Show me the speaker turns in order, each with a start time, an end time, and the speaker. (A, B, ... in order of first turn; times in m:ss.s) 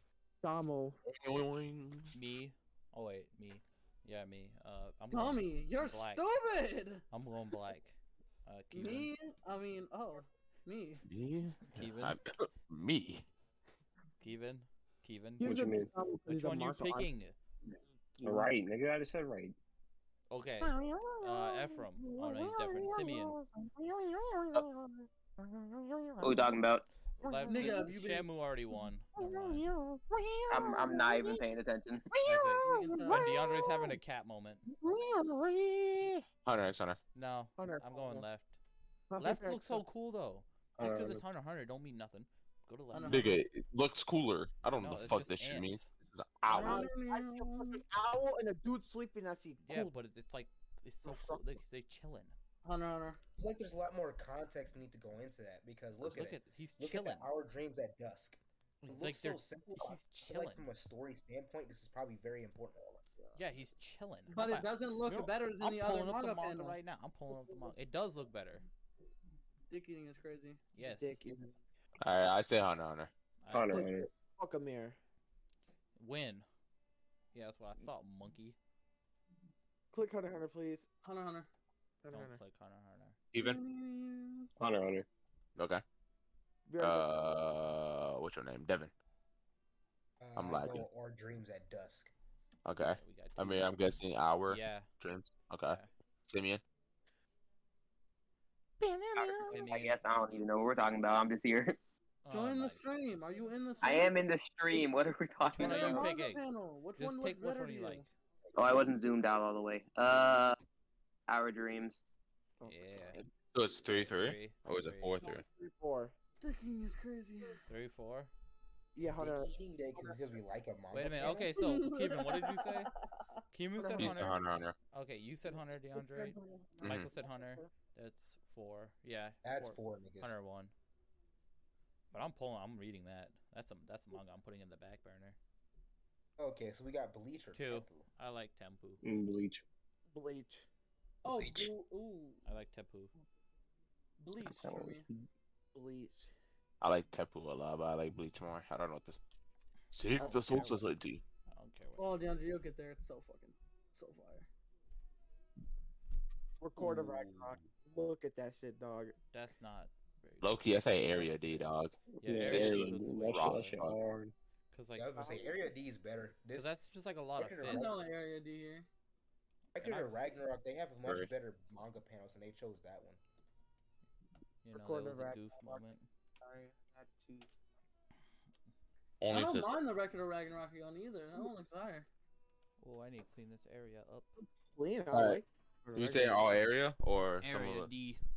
0:00.4-0:01.0 A
0:01.0-0:02.2 B
0:02.1-0:06.2 C
0:05.1-0:07.0 D
0:07.1-0:09.1 C
0:08.7-0:11.0 D
0:11.0-0:13.2 B
0:11.6-0:12.2 C
0:14.2-0:15.6 C
0:15.4-0:17.1 A
0:15.4-0:15.9 E
0:16.2-0:17.4 C
0:18.1-0:18.6 A
0:18.2-0:19.6 E
0:20.3-0:23.4 C
0:20.9-0:25.0 A
0:26.2-0:26.8 F
0:27.2-0:29.7 C
0:27.2-0:27.8 A
0:27.5-0:28.3 D
0:29.2-0:31.4 A
0:30.5-0:32.1 F
0:32.2-0:34.6 C
0:32.6-0:33.6 D
0:33.1-0:34.0 A
0:34.8-0:36.0 A
0:36.4-0:37.0 B
0:37.2-0:38.6 C
0:37.6-0:38.3 A
0:39.1-0:39.8 A
0:39.2-0:43.4 C
0:40.8-0:41.2 E
0:42.9-0:43.4 D
0:43.1-0:46.9 B
0:44.8-0:45.9 C
0:46.5-0:50.0 A
0:46.5-0:47.8 D
0:49.6-0:52.4 C
0:51.0-0:51.6 A
0:52.6-0:53.2 D
0:53.4-1:03.0 G
0:56.0-0:57.3 C
0:58.9-1:00.7 C
1:03.4-1:08.7 C
1:04.3-1:06.8 D
1:07.3-1:07.7 A
1:09.7-1:10.6 D
1:10.8-1:11.2 C
1:10.8-1:11.6 A
1:12.0-1:13.1 B
1:13.4-1:13.9 C
1:13.5-1:14.1 E
1:13.7-1:15.0 A
1:16.0-1:16.5 C
1:17.3-1:18.6 C
1:19.9-1:20.9 A
1:21.0-1:21.5 D
1:22.0-1:22.4 A
1:22.1-1:23.2 C
1:23.3-1:23.6 B
1:23.4-1:24.5 D
1:24.6-1:25.1 E
1:25.6-1:25.8 B
1:26.7-1:27.3 A
1:26.8-1:28.9 B
1:30.2-1:32.1 G
1:30.4-1:30.9 B
1:32.6-1:36.6 B
1:32.8-1:34.9 C
1:38.8-1:39.5 B
1:39.1-1:41.8 F
1:39.5-1:40.4 C
1:42.2-1:42.8 C
1:42.3-1:44.2 D
1:43.8-1:46.1 F
1:45.4-1:46.4 C
1:45.6-1:48.0 D
1:47.0-1:48.1 C
1:48.6-1:50.6 F
1:51.3-1:52.0 F
1:52.6-1:53.2 C
1:53.5-1:55.4 B
1:53.9-1:55.2 C
1:55.2-1:56.1 A
1:56.4-1:57.6 D
1:57.7-1:58.3 C
1:59.0-2:00.2 A
1:59.0-2:01.4 G
2:00.9-2:02.9 C
2:01.2-2:01.5 A
2:01.6-2:02.9 D
2:03.5-2:04.4 C
2:03.8-2:04.3 A
2:04.0-2:04.8 B
2:04.9-2:10.7 C
2:05.5-2:07.7 A
2:06.8-2:07.1 B
2:09.4-2:10.4 G
2:12.1-2:15.4 C
2:16.4-2:18.1 G
2:17.5-2:19.0 C
2:19.0-2:19.6 E
2:20.1-2:20.7 A
2:21.2-2:22.4 D
2:22.4-2:23.1 C
2:24.2-2:25.1 D
2:24.4-2:25.3 E
2:25.7-2:26.3 A
2:26.8-2:29.2 B
2:29.9-2:31.2 B
2:30.2-2:30.8 A
2:31.5-2:32.1 C
2:32.0-2:34.5 D
2:36.6-2:39.2 A
2:36.8-2:37.7 G
2:39.3-2:43.8 C
2:40.4-2:44.0 B
2:42.1-2:44.3 E
2:44.7-2:45.1 C
2:45.0-2:46.8 G
2:45.2-2:45.7 A
2:46.5-2:47.9 C
2:47.4-2:48.0 G
2:47.7-2:48.9 D
2:49.8-2:53.2 G
2:49.8-2:50.4 C
2:54.6-2:56.0 C
2:54.7-2:57.5 A
2:59.2-2:59.8 B
2:59.3-3:02.1 D
3:02.8-3:04.3 C
3:04.4-3:06.7 A
3:05.1-3:05.4 B
3:06.0-3:07.9 B
3:07.4-3:08.2 C